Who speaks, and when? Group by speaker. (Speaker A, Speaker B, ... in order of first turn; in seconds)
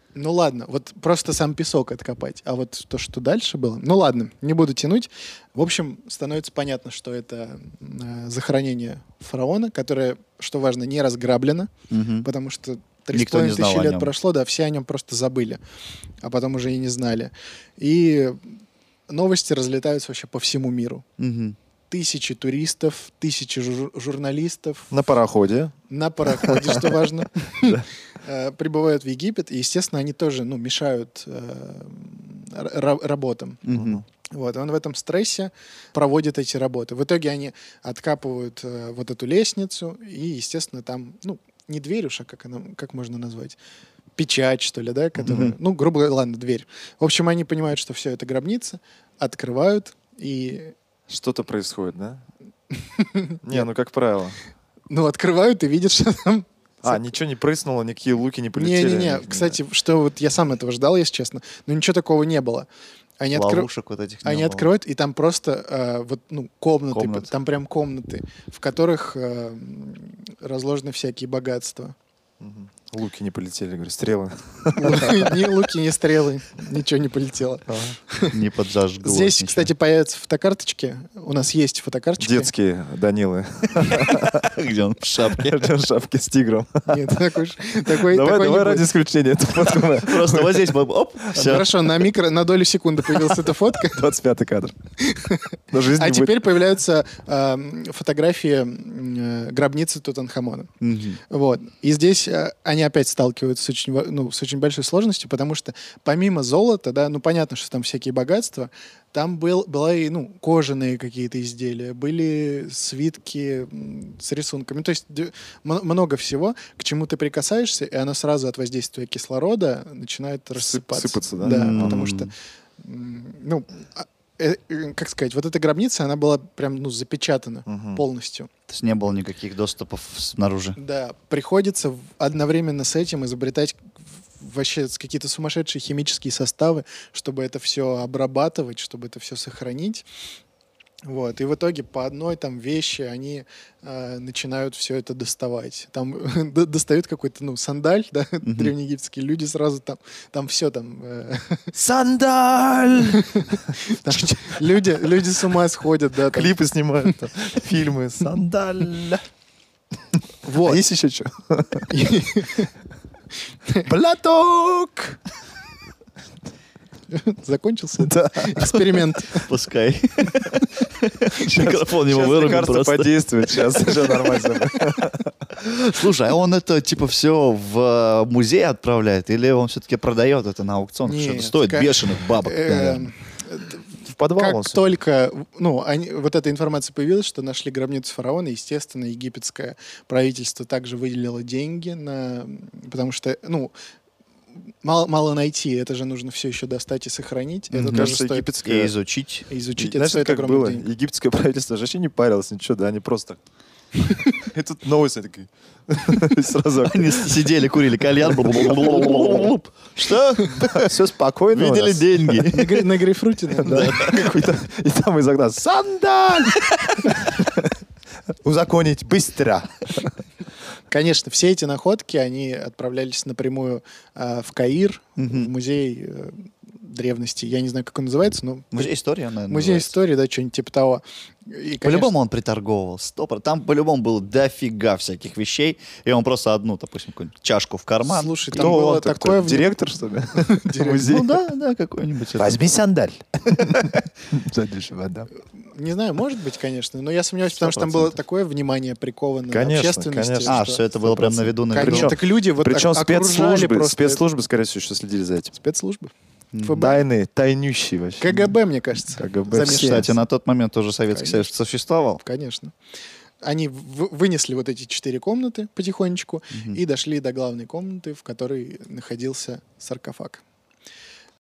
Speaker A: 0.1-11.7, 12.2-15.6, 16.2-21.0, 21.9-25.0, 25.9-33.6, 34.3-43.6, 44.2-50.7, 52.7-53.6, 54.9-57.0, 58.5-62.7, 63.2-63.7, 64.2-71.9, 74.7-78.3, 79.0-82.5, 86.9-88.9, 91.3-94.0, 95.0-100.7, 101.3-128.5, 130.8-140.1, 141.0-151.7, 153.1-156.5, 160.4-160.8, 161.9-162.7, 167.1-169.5, 181.0-183.8, 184.3-193.7, 194.8-198.5, 199.5-200.9, 204.1-204.3, 212.5-214.1, 220.9-228.9, 229.5-232.1, 238.0-239.8, 240.3-241.1, 245.6-250.8, 251.7-254.2, 255.5-257.0, 258.2-260.1, 261.1-261.5, 262.2-262.7, 263.4-270.4
Speaker B: 11.9-12.3, 13.1-14.1, 21.2-21.6, 33.6-34.0, 45.2-45.5, 63.3-64.7, 66.9-67.3, 78.3-79.7, 83.9-85.6, 90.0-91.7, 100.8-101.2, 121.4-122.3, 128.7-130.8, 148.4-148.7, 169.3-173.1, 175.6-183.1, 197.7-198.1, 198.6-199.4, 206.8-210.9, 211.5-212.7, 213.7-214.2, 225.2-225.5, 228.7-229.9, 231.8-238.8, 241.0-242.6, 247.5-248.2, 250.4-252.1, 256.5-256.9, 259.5-262.2, 266.5-266.8
Speaker C: 24.9-25.7, 26.2-27.0, 33.7-34.0, 51.1-52.2, 53.4-54.4, 56.8-59.6, 72.4-75.5, 77.7-78.0, 82.2-84.5, 85.3-87.2, 87.9-90.8, 91.3-91.7, 93.1-94.7, 95.7-96.5, 120.5-122.1, 127.7-128.0, 151.7-153.6, 154.1-155.0, 156.2-159.2, 160.6-161.9, 163.9-165.2, 168.0-168.8, 171.5-175.3, 184.1-184.8, 197.9-198.9, 199.8-203.4, 204.3-207.5, 208.3-209.5, 210.6-212.8, 213.6-217.7, 218.4-220.1, 238.6-241.4, 242.4-245.3, 249.5-255.5, 256.8-258.5, 259.1-260.1